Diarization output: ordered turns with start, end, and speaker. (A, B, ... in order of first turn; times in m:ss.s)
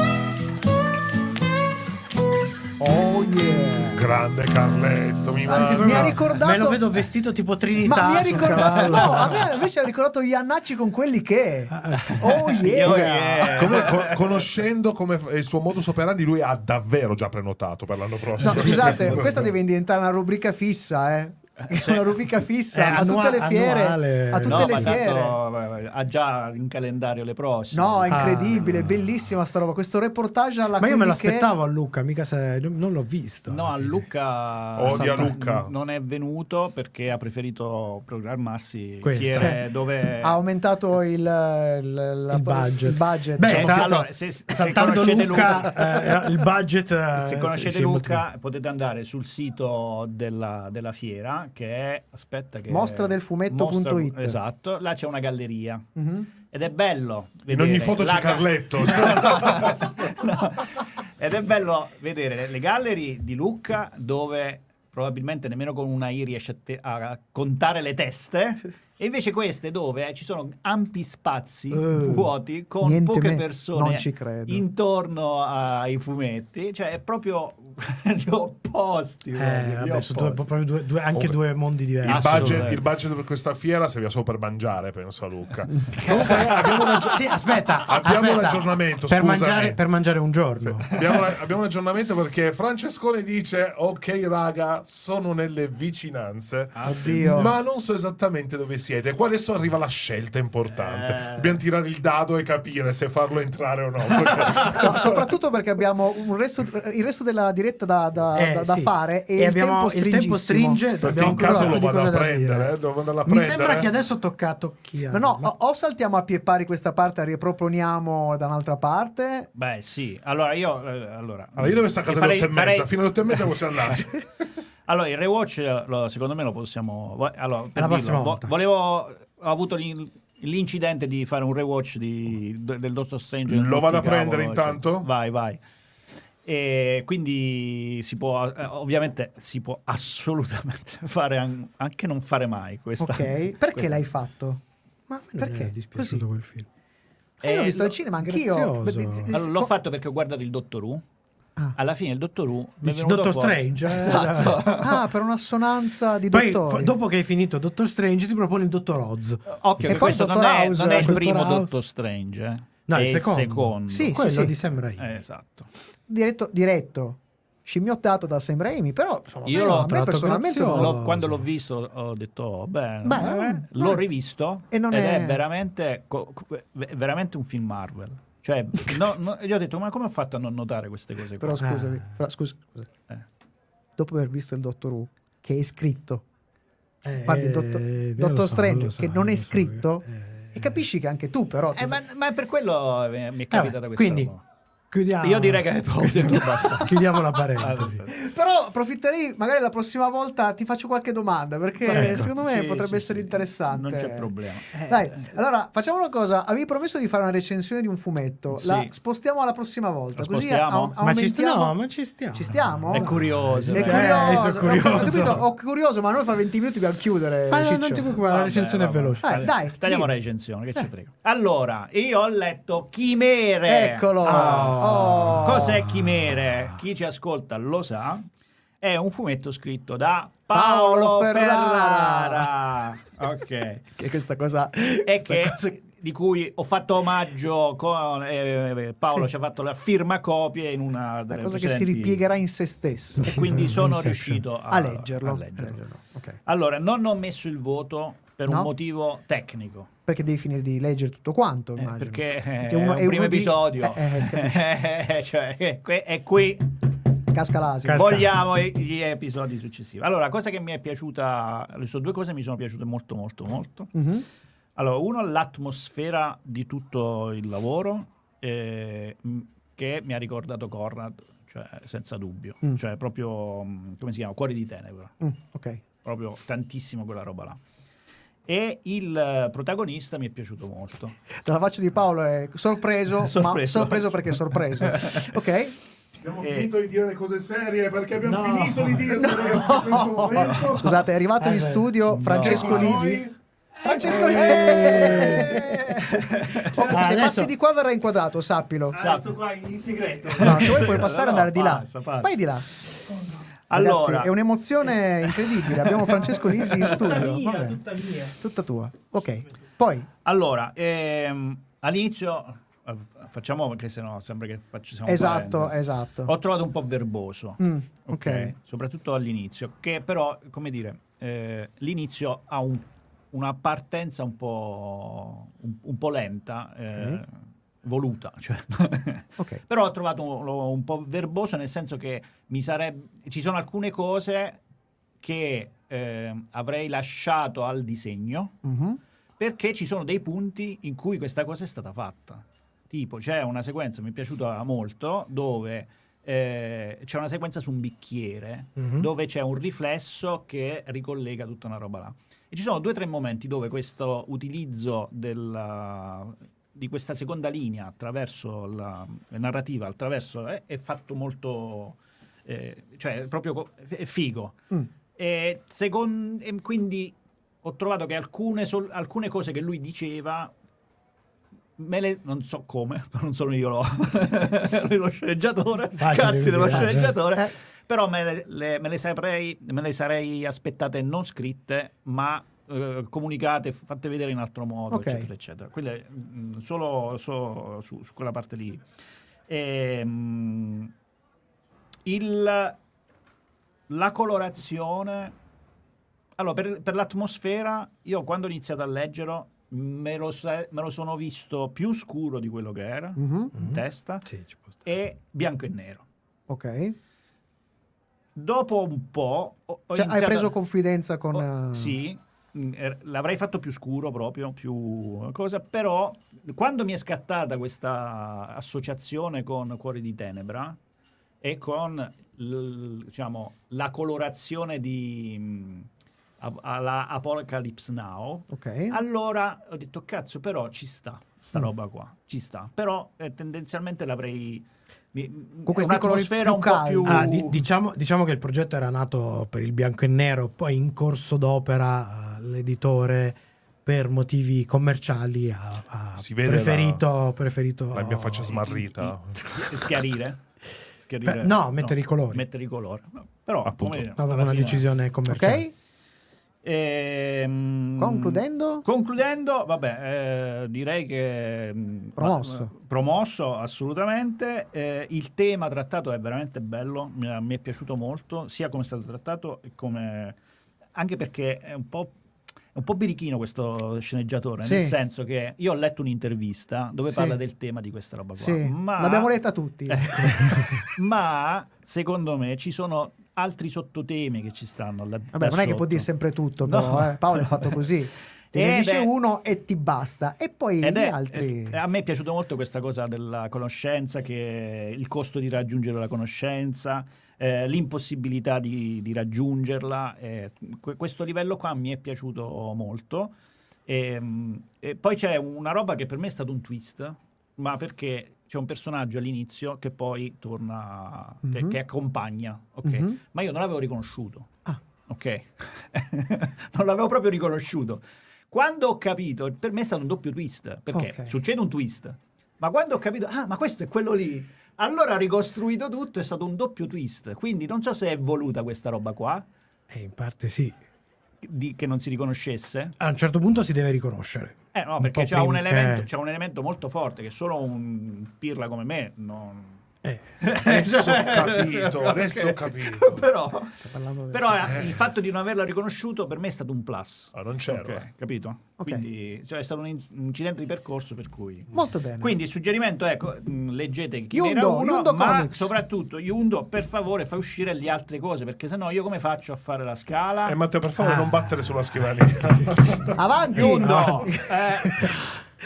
0:02.8-0:04.0 A
0:03.9-0:06.2 B
0:05.5-0:06.8 A
0:05.5-0:09.5 C
0:07.8-0:13.6 A
0:11.7-0:13.2 C
0:12.0-0:14.4 D
0:13.6-0:19.5 B
0:18.4-0:25.4 A
0:18.4-0:19.4 C
0:21.6-0:22.0 D
0:22.7-0:25.0 C
0:22.8-0:23.1 D
0:24.4-0:28.6 D
0:27.7-0:31.5 A
0:28.1-0:29.3 C
0:30.8-0:34.0 C
0:33.5-0:40.4 D
0:34.8-0:35.7 B
0:34.9-0:35.4 C
0:39.0-0:39.6 C
0:39.4-0:39.6 A
0:40.2-0:43.9 A
0:42.3-0:48.2 C
0:43.4-0:46.1 D
0:47.1-0:55.9 D
0:52.7-0:54.4 A
0:56.0-0:56.3 A
0:56.5-1:20.5 D
0:57.5-0:59.9 B
1:11.7-1:14.6 A
1:19.3-1:22.8 C
1:22.0-1:27.2 B
1:22.0-1:22.8 D
1:26.0-1:30.9 C
1:27.9-1:29.8 B
1:30.6-1:45.2 B
1:36.7-1:37.5 D
1:36.8-1:37.5 A
1:40.7-1:41.6 D
1:44.5-1:44.8 D
1:44.8-1:51.8 A
1:48.3-1:55.5 C
1:51.0-1:53.9 B
1:55.1-1:59.5 A
1:59.5-2:03.4 D
2:01.6-2:04.2 B
2:04.9-2:15.6 D
2:07.8-2:08.5 C
2:13.5-2:15.1 B
2:16.4-2:24.0 D
2:23.0-2:24.6 A
2:25.1-2:26.7 C
2:25.4-2:26.2 A
2:27.4-2:28.0 D
2:27.4-2:29.7 A
2:28.2-2:29.3 C
2:29.3-2:31.0 D
2:31.7-2:35.0 D
2:32.8-2:34.7 C
2:34.8-2:36.9 A
2:36.3-2:40.1 C
2:39.5-2:44.2 D
2:39.8-2:41.6 A
2:40.9-2:41.6 C
2:42.9-2:45.1 C
2:43.9-2:44.5 A
2:45.0-2:45.7 D
2:46.1-2:50.9 A
2:49.4-2:51.4 C
2:49.4-2:49.9 D
2:50.6-3:01.6 D
2:53.0-2:54.0 A
2:54.7-2:55.4 A
3:01.4-3:02.9 A
3:01.6-3:02.1 C
3:04.0-3:06.2 A
3:07.0-3:10.8 C
3:07.2-3:12.0 A
3:11.7-3:14.4 D
3:13.5-3:14.3 C
3:14.9-3:18.0 C
3:15.2-3:18.2 D
3:18.1-3:24.3 A
3:21.8-3:25.3 D
3:21.9-3:22.3 C
3:24.9-3:31.8 A
3:28.5-3:28.9 D
3:30.2-3:30.9 D
3:31.0-3:35.4 C
3:32.3-3:38.1 A
3:32.9-3:35.3 D
3:37.5-3:39.5 C
3:38.2-3:48.3 D
3:39.2-3:40.1 A
3:43.6-3:45.8 A
3:44.2-3:46.7 C
3:48.8-3:53.9 D
3:50.5-3:52.5 A
3:54.0-3:55.8 A
3:55.0-4:02.2 D
4:01.3-4:03.9 A
4:03.2-4:05.8 D
4:03.3-4:04.4 C
4:04.7-4:06.4 A
4:06.4-4:09.9 D
4:10.1-4:14.7 A
4:11.8-4:16.7 D
4:17.3-4:18.2 A
4:17.8-4:18.3 C
4:17.9-4:23.9 D
4:23.9-4:24.2 A
4:24.8-4:35.1 D
4:35.2-4:35.8 A
4:36.0-4:37.6 D
4:38.5-4:41.2 D
4:41.4-4:45.8 A
4:43.2-4:45.3 D
4:46.2-4:51.0 B
4:46.4-4:46.7 D
4:48.2-4:49.3 C
4:49.2-4:53.2 A
4:50.4-4:50.8 D
4:51.4-4:53.1 C
4:52.1-4:53.0 D
4:52.5-4:53.3 B
4:53.8-4:56.1 A
4:54.0-4:55.7 C
4:54.3-4:56.8 D
4:56.7-4:59.0 A
4:56.9-4:57.5 C
4:58.9-4:59.4 D
4:58.9-5:00.6 E
5:00.3-5:02.4 D
5:00.4-5:02.7 A
5:03.1-5:03.4 E
5:03.7-5:04.3 D
5:03.7-5:07.8 A
5:04.8-5:07.1 D
5:06.8-5:08.4 E
5:08.4-5:10.1 A
5:10.2-5:34.6 D
5:15.1-5:16.3 A
5:17.6-5:18.5 A
5:26.9-5:27.2 A
5:35.2-5:38.6 D
5:38.6-5:39.0 A
5:39.4-6:10.5 D
5:48.8-5:49.1 C
6:11.8-6:28.8 D
6:16.0-6:17.2 C
6:24.9-6:25.3 A
6:29.5-6:30.9 D
6:32.0-6:32.8 D
6:33.9-6:35.3 D
6:36.4-6:44.3 D
6:43.2-6:43.6 A
6:44.2-6:44.8 C
6:44.8-6:46.0 D
6:46.5-6:47.0 A
6:48.3-6:50.5 D
6:49.9-6:52.0 A
6:51.3-7:00.8 D
7:01.4-7:05.9 D
7:06.4-7:17.6 D
7:08.5-7:09.0 A
7:15.6-7:17.4 A
7:17.0-7:28.7 C
7:26.2-7:27.0 B
7:27.9-7:29.4 B
7:28.7-7:30.4 D
7:31.0-7:34.8 D
7:31.2-7:32.4 C
7:33.7-7:34.0 B
7:34.1-7:35.7 C
7:35.3-7:35.7 A
7:36.6-7:50.4 D
7:38.0-7:38.8 A
7:42.2-7:42.7 A
7:50.9-7:52.1 D
7:52.7-7:59.3 D
7:54.6-7:54.9 A
7:57.1-7:57.4 A
7:58.4-8:00.7 A
7:59.9-8:06.1 D
8:05.3-8:11.8 A
8:06.6-8:07.8 D
8:08.5-8:09.1 D
8:10.8-8:23.3 D
8:23.9-8:34.5 D
8:31.5-8:31.8 A
8:32.8-8:33.2 A
8:35.1-8:49.5 D
8:40.9-8:41.3 A
8:49.9-8:50.8 C
8:51.4-8:53.0 D
8:53.0-8:56.1 C
8:54.7-8:59.8 D
9:00.4-9:03.8 D
9:00.6-9:03.2 B
9:03.7-9:04.9 A
9:04.3-9:20.6 D
9:07.3-9:08.0 B
9:11.7-9:12.3 A
9:14.3-9:15.7 A
9:20.5-9:23.2 B
9:21.0-9:23.1 C
9:23.2-9:25.1 A
9:23.6-9:25.3 D
9:23.6-9:24.3 C